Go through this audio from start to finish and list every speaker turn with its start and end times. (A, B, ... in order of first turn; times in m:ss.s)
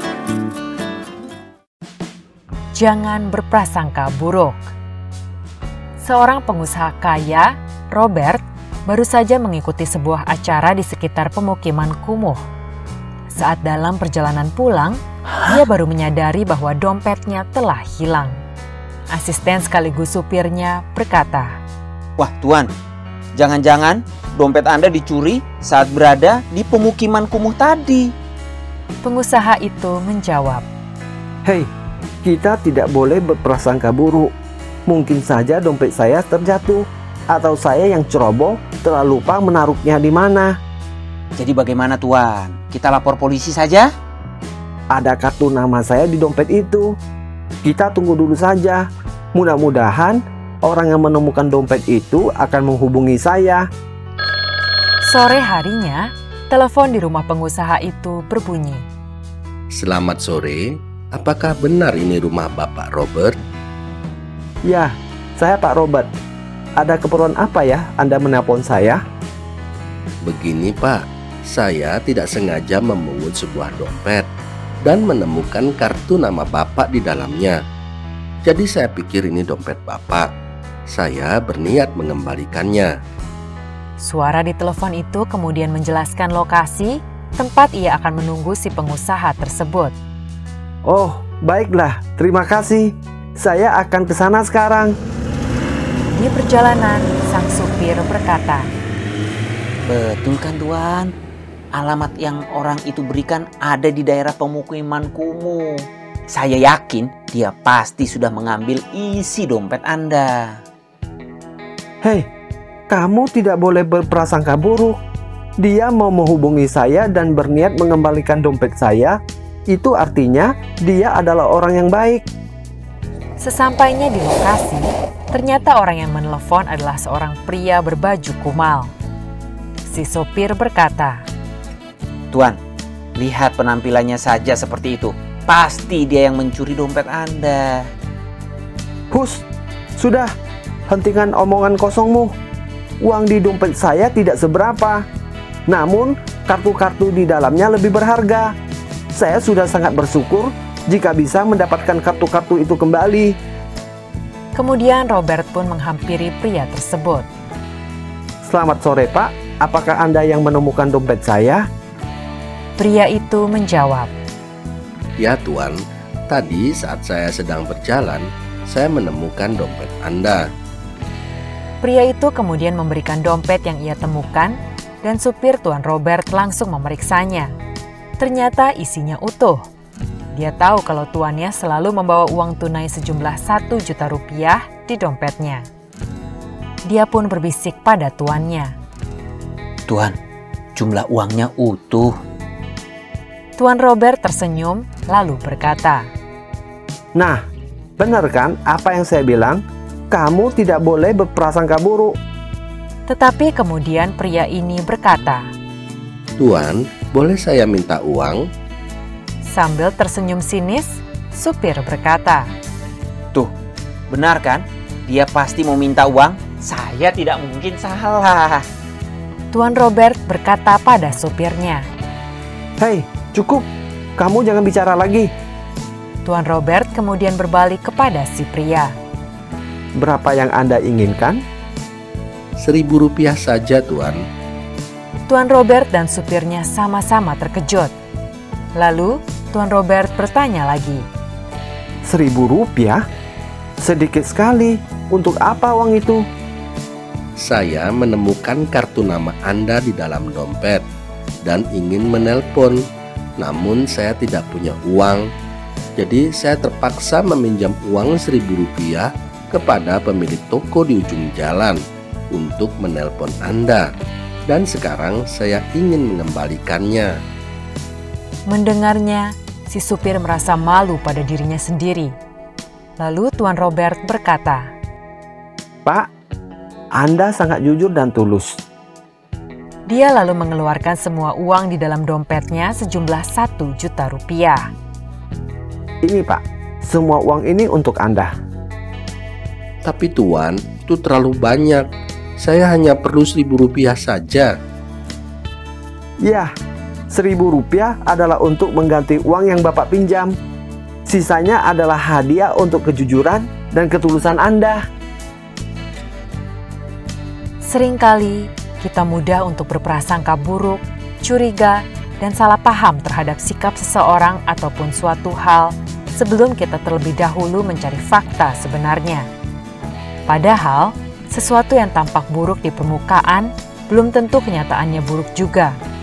0:02.8-0:04.6 A
0:06.0-0:12.4 A
0:13.3-0:18.4 A
0:19.1-0:21.6 A
0:22.2-0:22.7 B
0:23.4-0:28.1 B
0:29.0-0:30.7 A
0:32.2-0:34.3 C
0:34.9-0:40.5 C
0:41.4-0:43.9 B
0:44.9-0:47.0 C
0:47.6-0:53.6 C
0:55.0-0:58.9 A
0:59.7-1:03.4 D
1:04.7-1:06.1 C
1:06.8-1:09.0 C
1:10.2-1:14.3 D
1:14.8-1:17.6 D
1:18.4-1:20.3 D
1:20.9-1:22.9 D
1:24.0-1:30.0 A
1:30.9-1:34.9 C
1:36.1-1:38.7 A
1:39.9-1:41.1 B
1:41.7-1:50.6 B
1:52.9-1:55.0 C
1:55.6-1:59.2 C
1:59.7-2:02.3 C
2:03.4-2:08.9 A
2:09.9-2:11.3 A
2:12.3-2:12.6 B
2:13.2-2:17.9 B
2:19.1-2:19.4 C
2:20.0-2:20.3 C
2:20.9-2:22.3 C
2:23.0-2:25.0 C
2:25.7-2:28.5 C
2:29.1-2:33.4 C
2:34.6-2:37.3 A
2:38.4-2:41.6 C
2:42.8-2:44.1 A
2:45.2-2:50.5 D
2:51.8-2:57.5 A
2:58.2-2:59.6 A
3:00.3-3:05.7 A
3:06.9-3:08.8 A
3:09.9-3:10.2 B
3:10.8-3:12.1 B
3:13.6-3:16.1 A
3:18.0-3:22.2 C
3:23.1-3:25.5 A
3:26.4-3:28.5 D
3:29.4-3:32.5 A
3:34.1-3:38.6 B
3:39.5-3:41.9 A
3:42.8-3:43.7 C
3:44.2-3:45.3 C
3:46.2-3:49.0 A
3:50.0-3:51.4 C
3:52.6-3:54.2 D
3:55.3-3:57.9 A
3:58.8-4:01.1 A
4:02.1-4:03.0 C
4:03.8-4:06.2 C
4:07.4-4:10.9 D
4:11.4-4:12.8 D
4:13.4-4:15.2 D
4:16.0-4:21.8 D
4:22.3-4:23.9 D
4:24.5-4:27.1 D
4:28.5-4:32.2 A
4:33.0-4:34.7 A
4:37.0-4:38.6 C
4:39.9-4:44.7 A
4:46.0-4:48.3 C
4:49.8-4:51.8 D
4:52.4-4:54.5 D
4:56.2-4:56.5 C
4:57.1-5:00.4 C
5:01.1-5:04.8 C
5:07.6-5:19.3 A
5:20.3-5:25.8 A